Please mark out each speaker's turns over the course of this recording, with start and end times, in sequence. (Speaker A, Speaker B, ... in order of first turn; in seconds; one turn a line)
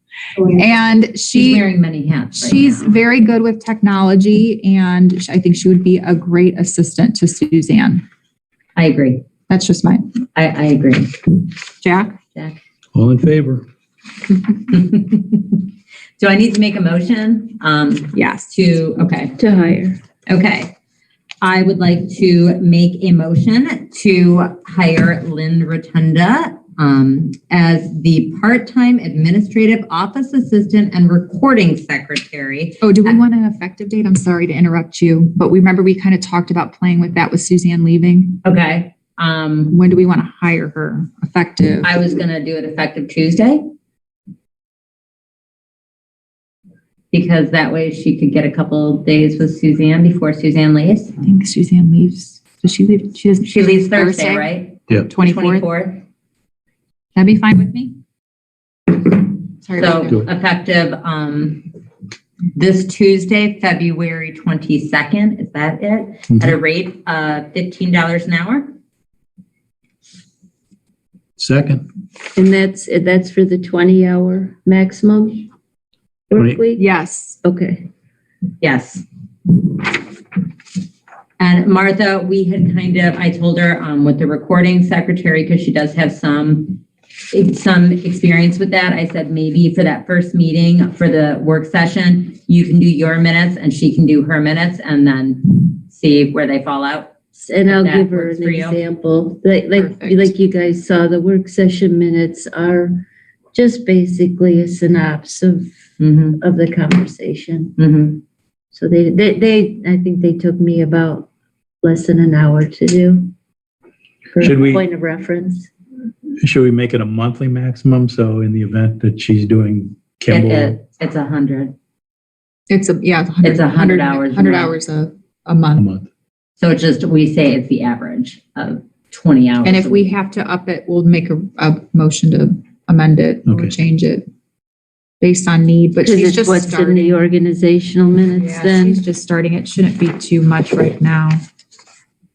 Speaker A: 0.5-1.6
Speaker B: 1.3-3.0
Speaker A: 2.3-8.0
Speaker B: 8.8-9.2
Speaker A: 9.5-10.0
Speaker B: 10.3-11.2
Speaker A: 11.8-12.2
Speaker C: 12.9-13.7
Speaker B: 14.6-15.6
Speaker B: 16.2-19.3
Speaker A: 18.1-18.6
Speaker D: 19.4-20.0
Speaker B: 20.3-20.7
Speaker B: 21.4-33.1
Speaker A: 32.8-38.4
Speaker B: 38.4-39.8
Speaker A: 39.7-41.9
Speaker B: 41.8-43.6
Speaker B: 47.1-51.1
Speaker A: 51.2-54.5
Speaker B: 53.4-56.0
Speaker A: 55.1-55.7
Speaker A: 57.1-58.0
Speaker A: 59.6-60.2
Speaker B: 59.7-61.7
Speaker B: 62.5-68.7
Speaker C: 66.3-66.6
Speaker C: 71.4-71.8
Speaker D: 72.3-75.5
Speaker D: 76.3-76.8
Speaker A: 76.8-77.4
Speaker D: 77.4-77.9
Speaker B: 78.6-79.0
Speaker B: 81.4-86.8
Speaker B: 87.3-97.1
Speaker D: 97.3-105.7
Speaker B: 97.7-98.8
Speaker A: 99.7-100.3
Speaker B: 106.0-106.4
Speaker D: 106.4-107.8
Speaker B: 107.8-108.2
Speaker D: 108.7-111.3
Speaker D: 111.8-113.3
Speaker D: 114.3-115.7
Speaker C: 114.4-114.8
Speaker C: 116.4-120.8
Speaker B: 120.3-121.7
Speaker A: 122.7-125.8
Speaker B: 123.4-124.8
Speaker C: 125.8-126.1
Speaker B: 126.6-130.1
Speaker A: 129.6-134.2
Speaker C: 133.4-133.8
Speaker A: 135.2-137.3
Speaker D: 136.0-139.0
Speaker A: 138.4-141.4